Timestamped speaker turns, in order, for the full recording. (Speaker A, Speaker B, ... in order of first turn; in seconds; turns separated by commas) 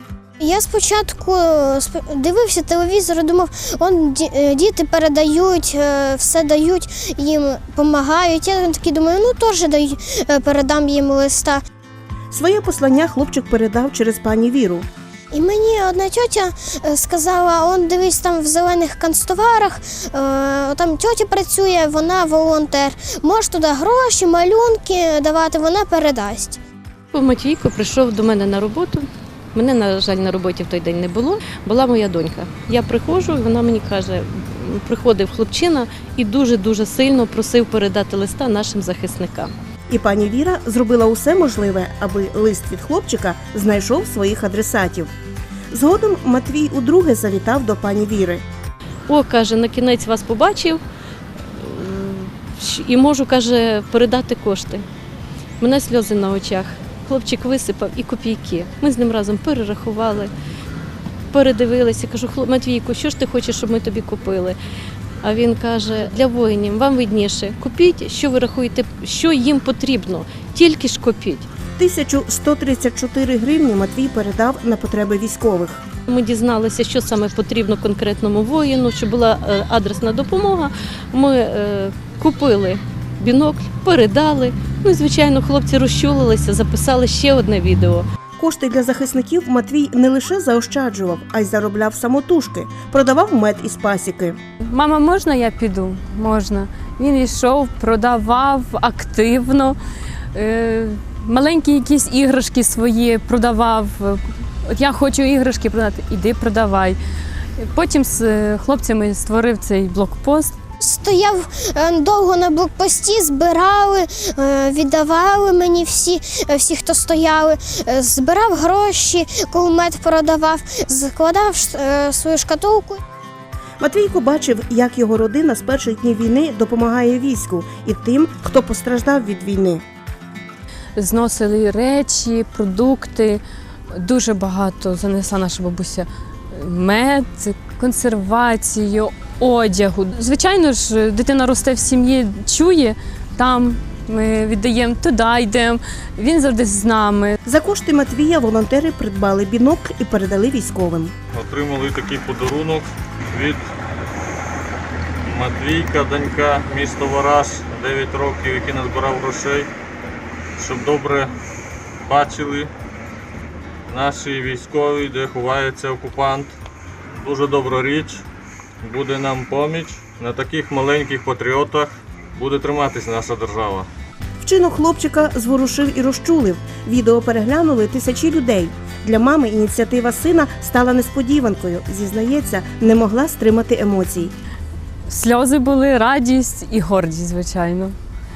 Speaker A: 0.4-11.6, Speaker B: 12.3-14.9, Speaker A: 15.3-26.6, Speaker C: 27.1-39.5, Speaker B: 39.9-45.1, Speaker B: 45.7-48.4, Speaker C: 49.1-50.8, Speaker C: 51.5-54.9, Speaker C: 55.6-60.3, Speaker C: 61.3-64.6, Speaker C: 65.2-71.5, Speaker B: 71.8-75.8, Speaker C: 76.1-88.1, Speaker B: 88.4-94.4, Speaker D: 94.7-99.8, Speaker D: 100.3-107.0, Speaker D: 107.6-110.5, Speaker A: 110.8-123.0, Speaker B: 123.8-129.8, Speaker D: 131.0-147.3, Speaker B: 147.4-151.2, Speaker E: 151.3-153.7, Speaker E: 155.3-159.7, Speaker E: 160.6-161.3, Speaker E: 162.1-162.7, Speaker E: 163.9-166.5, Speaker E: 167.2-168.2, Speaker E: 168.8-173.9, Speaker B: 174.4-184.3, Speaker D: 185.1-188.0